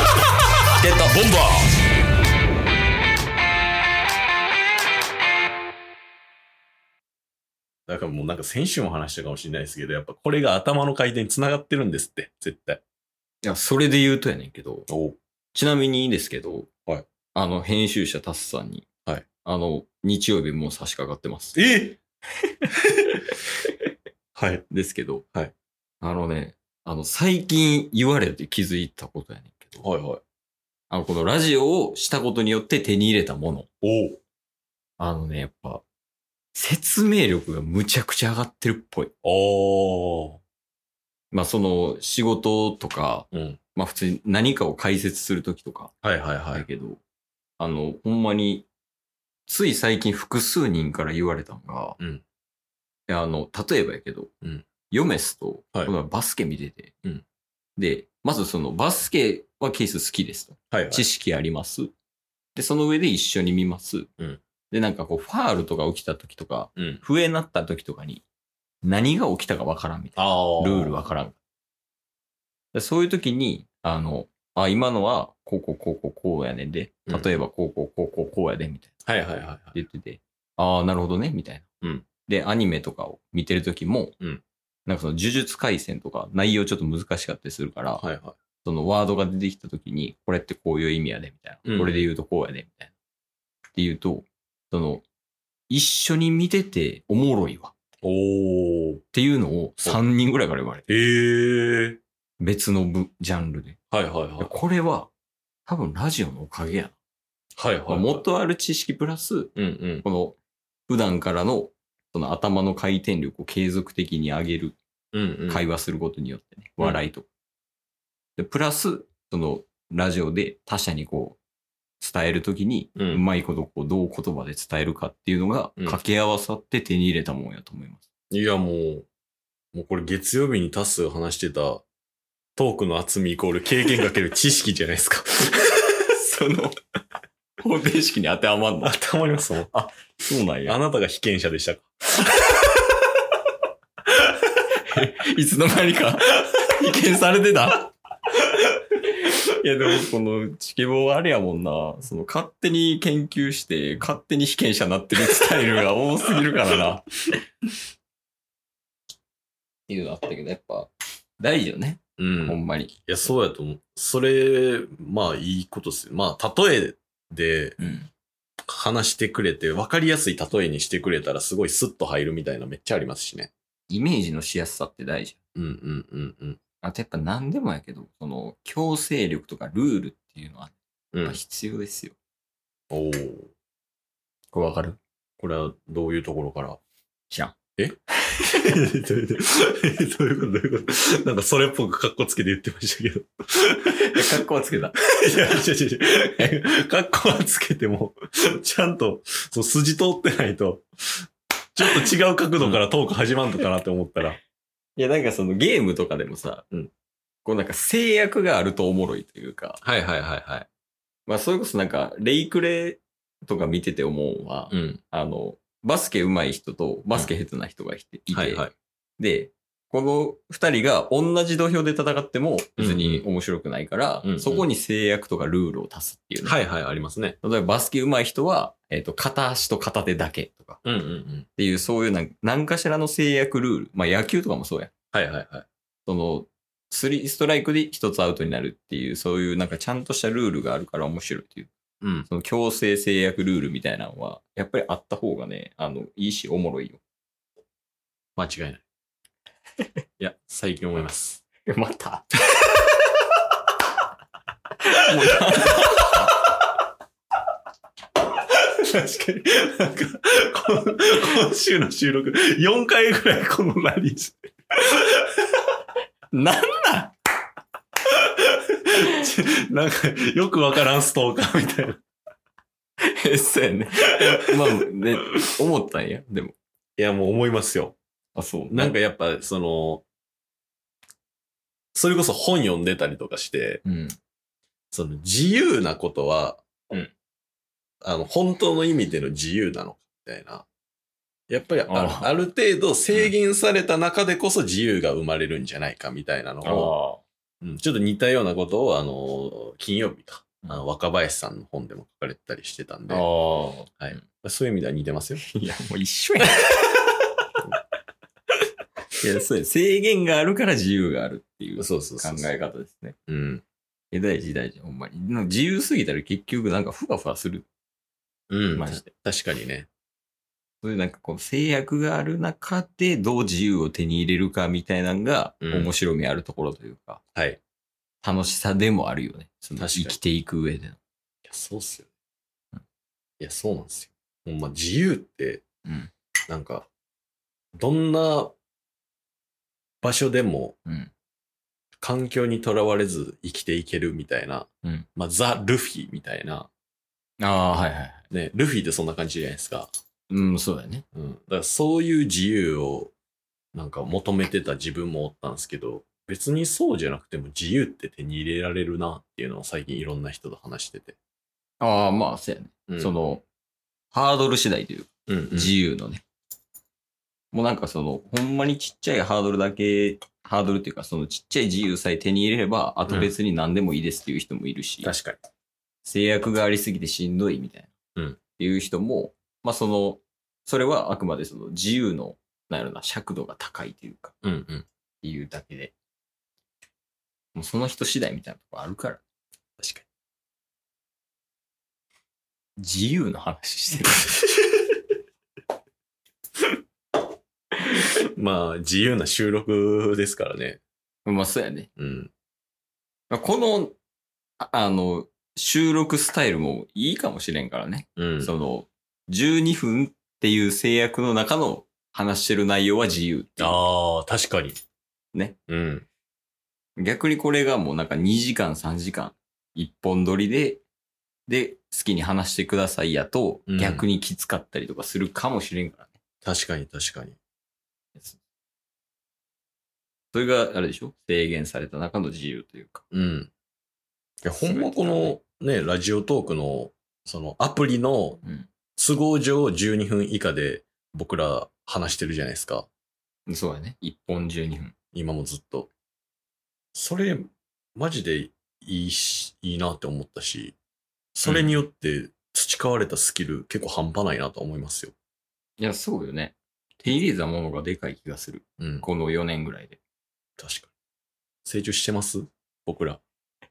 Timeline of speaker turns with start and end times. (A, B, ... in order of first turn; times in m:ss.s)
0:00.8-0:01.3 A
0:01.2-0:01.6 B
0:07.9-0:12.8 B
0:13.4-0:14.9 A
0:14.9-0:15.2 B
0:15.5-0:16.7 A
0:17.3-0:18.9 A
0:19.4-0:21.6 A
0:21.5-0:22.0 B
0:23.2-0:23.7 A
0:24.4-0:24.6 B
0:24.7-0:25.2 A
0:26.0-0:29.8 A
0:29.8-0:30.2 B
0:30.9-0:33.7 A
0:33.8-0:34.2 B
0:35.0-0:35.8 A
0:36.5-0:39.1 A
0:39.2-0:40.4 B
0:41.3-0:45.9 A
0:43.3-0:43.6 B
0:46.0-0:46.6 B
0:46.5-0:47.0 A
0:47.6-0:48.7 A
0:49.5-0:52.0 A
0:53.1-0:54.3 A
0:54.9-0:56.9 A
0:57.8-1:01.9 A
1:00.7-1:01.1 B
1:02.5-1:04.1 A
1:04.7-1:08.2 A
1:06.8-1:07.0 B
1:08.8-1:11.4 A
1:10.2-1:11.0 B
1:12.7-1:18.9 A
1:17.1-1:17.4 B
1:19.0-1:19.8 B
1:19.7-1:21.6 A
1:21.8-1:22.1 B
1:22.3-1:24.1 A
1:24.8-1:28.0 A
1:28.0-1:28.4 B
1:28.6-1:32.9 A
1:31.6-1:32.1 B
1:33.8-1:35.0 A
1:35.7-1:37.7 A
1:38.0-1:39.0 B
1:39.1-1:41.0 A
1:40.9-1:42.0 B
1:42.4-1:43.8 A
1:43.9-1:44.5 B
1:44.4-1:45.1 A
1:45.7-1:46.9 A
1:47.6-1:48.2 B
1:47.9-1:54.8 A
1:49.6-1:50.0 B
1:55.1-1:55.6 B
1:55.5-1:57.3 A
1:58.4-2:01.4 A
2:02.0-2:08.0 A
2:03.0-2:03.2 B
2:08.3-2:09.1 B
2:09.7-2:11.8 B
2:12.6-2:15.9 B
2:16.1-2:16.8 A
2:17.6-2:18.9 A
2:18.8-2:19.7 B
2:19.7-2:20.8 A
2:20.6-2:21.9 B
2:22.4-2:22.6 A
2:24.8-2:37.1 A
2:39.9-2:43.0 A
2:42.2-2:47.8 B
2:47.8-2:48.1 A
2:48.6-2:53.5 B
2:53.9-2:55.4 A
2:55.5-2:56.6 B
2:56.8-3:02.2 A
3:01.1-3:01.4 B
3:02.9-3:03.5 B
3:04.5-3:05.0 A
3:05.4-3:06.8 B
3:07.3-3:07.5 A
3:07.8-3:14.4 B
3:13.9-3:15.0 A
3:15.0-3:24.4 B
3:25.0-3:26.6 A
3:27.4-3:29.8 A
3:29.8-3:30.7 B
3:31.3-3:38.6 A
3:34.7-3:35.0 B
3:38.3-3:38.7 B
3:39.2-3:46.6 A
3:42.8-3:43.2 B
3:44.2-3:44.7 B
3:46.4-3:47.4 B
3:47.4-3:50.8 A
3:50.8-3:51.5 B
3:51.6-3:54.9 A
3:55.1-3:55.6 B
3:56.0-4:01.7 A
4:02.0-4:02.3 B
4:02.3-4:07.0 A
4:08.4-4:08.8 B
4:10.2-4:11.4 B
4:11.6-4:12.3 A
4:14.9-4:16.3 A
4:15.2-4:15.7 B
4:18.9-4:24.4 B
4:26.3-4:27.1 A
4:28.2-4:32.0 B
4:33.0-4:36.5 A
4:37.0-4:38.0 B
4:38.3-4:38.9 A
4:38.7-4:40.0 B
4:41.9-4:43.8 B
4:43.8-4:44.2 A
4:44.9-4:46.6 B
4:48.0-4:50.6 B
4:51.5-4:56.9 B
4:51.9-4:52.4 A
4:56.6-4:57.2 A
4:57.6-5:03.2 B
5:03.1-5:04.2 A
5:04.0-5:05.4 B
5:05.4-5:07.0 A
5:09.2-5:13.1 A
5:11.8-5:12.5 B
5:13.3-5:13.6 B
5:14.1-5:17.7 A
5:18.5-5:19.9 B
5:18.8-5:19.1 A
5:20.8-5:27.2 A
5:25.6-5:25.9 B
5:27.3-5:27.6 B
5:28.2-5:31.0 A
5:29.8-5:30.2 B
5:31.4-5:32.1 B
5:33.4-5:35.6 B
5:35.8-5:36.1 A
5:36.5-5:36.9 B
5:37.8-5:38.5 B
5:40.0-5:40.8 B
5:40.8-5:41.1 A
5:42.0-5:46.7 B
5:47.4-5:48.2 A
5:48.3-5:49.9 B
5:50.3-5:51.0 A
5:51.1-5:53.1 B
5:53.7-6:01.2 B
6:01.8-6:03.4 A
6:02.9-6:03.1 B
6:04.1-6:06.2 A
6:05.3-6:05.7 B
6:07.5-6:15.1 A
6:13.1-6:13.3 B
6:15.0-6:15.4 B
6:16.0-6:17.9 A
6:18.6-6:24.3 A
6:24.4-6:24.8 B
6:25.2-6:25.9 A
6:27.5-6:29.2 A
6:29.8-6:30.0 B
6:32.8-6:34.8 A
6:38.2-6:40.8 B
6:41.2-6:41.9 A
6:42.0-6:42.3 B
6:43.3-6:43.9 A
6:44.6-6:53.8 A
6:48.2-6:48.5 B
6:53.6-6:54.8 B
6:55.7-6:56.1 B
6:57.0-7:00.8 A
7:01.5-7:06.1 A
7:03.7-7:04.0 B
7:06.4-7:07.4 B
7:10.3-7:13.0 A
7:13.1-7:13.5 B
7:14.4-7:18.4 B
7:14.4-7:15.4 A
7:18.4-7:18.7 A
7:19.0-7:22.9 B
7:23.5-7:24.9 A
7:25.1-7:25.9 B
7:26.9-7:30.8 B
7:31.4-7:35.1 B
7:31.4-7:31.8 A
7:35.8-7:40.0 A
7:38.8-7:39.0 B
7:40.6-7:40.9 B
7:41.6-7:43.2 B